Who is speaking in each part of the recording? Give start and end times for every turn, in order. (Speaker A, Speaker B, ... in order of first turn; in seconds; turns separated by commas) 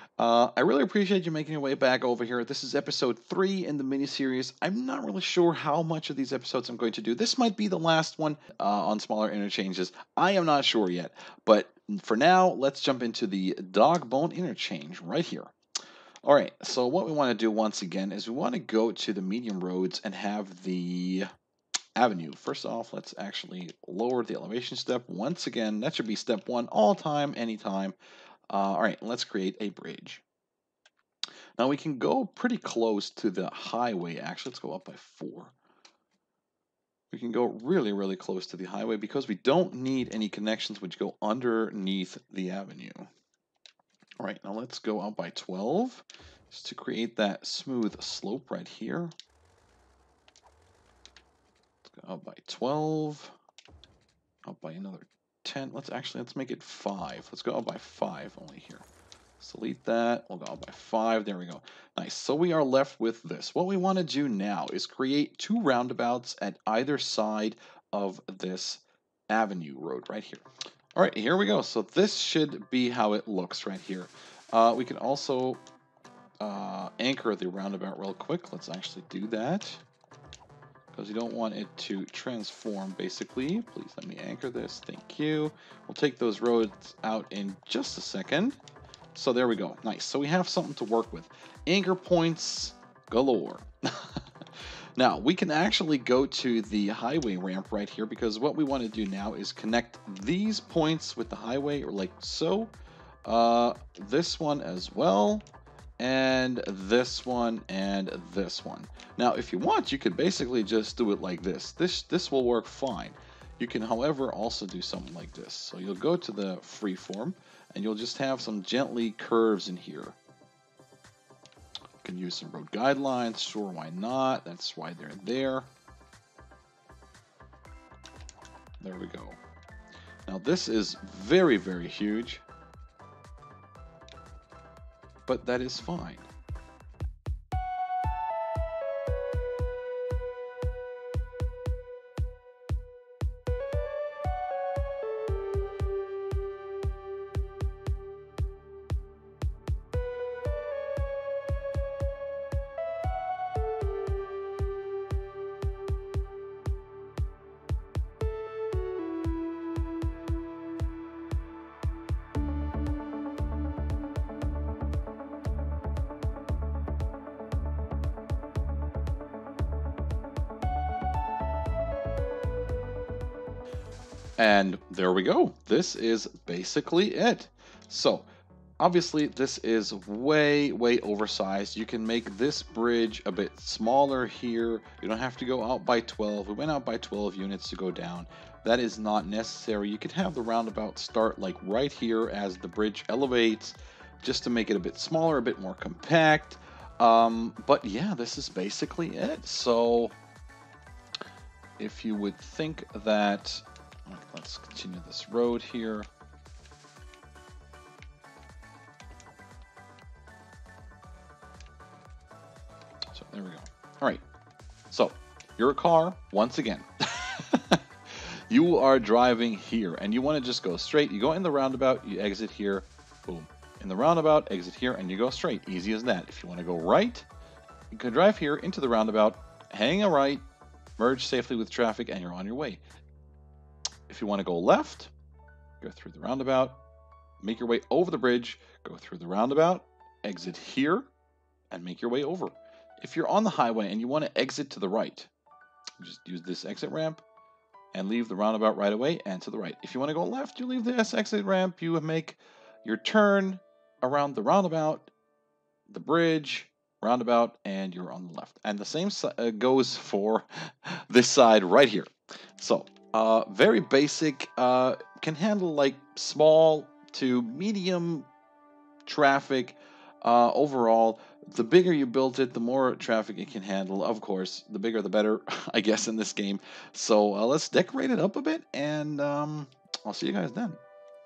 Speaker A: 0.2-15.5, Speaker A: 16.2-21.3, Speaker A: 22.0-28.0, Speaker A: 28.5-30.2, Speaker A: 31.6-35.5, Speaker A: 37.1-43.1, Speaker A: 44.2-49.1, Speaker A: 51.8-53.4, Speaker A: 54.5-58.9, Speaker A: 59.4-75.6, Speaker A: 76.4-79.8, Speaker A: 80.9-88.6, Speaker A: 89.1-102.7, Speaker A: 103.2-105.5, Speaker A: 106.0-120.2, Speaker A: 122.0-125.7, Speaker A: 128.8-129.4, Speaker A: 130.3-132.4, Speaker A: 135.3-136.3, Speaker A: 174.4-178.3, Speaker A: 178.8-200.2, Speaker A: 201.8-206.1, Speaker A: 213.1-214.2, Speaker A: 214.9-227.3, Speaker A: 227.9-230.4, Speaker A: 231.0-232.8, Speaker A: 234.1-235.1, Speaker A: 235.8-236.8, Speaker A: 237.4-241.1, Speaker A: 241.7-245.3, Speaker A: 246.0-247.2, Speaker A: 247.9-255.1, Speaker A: 255.9-268.3, Speaker A: 269.1-280.8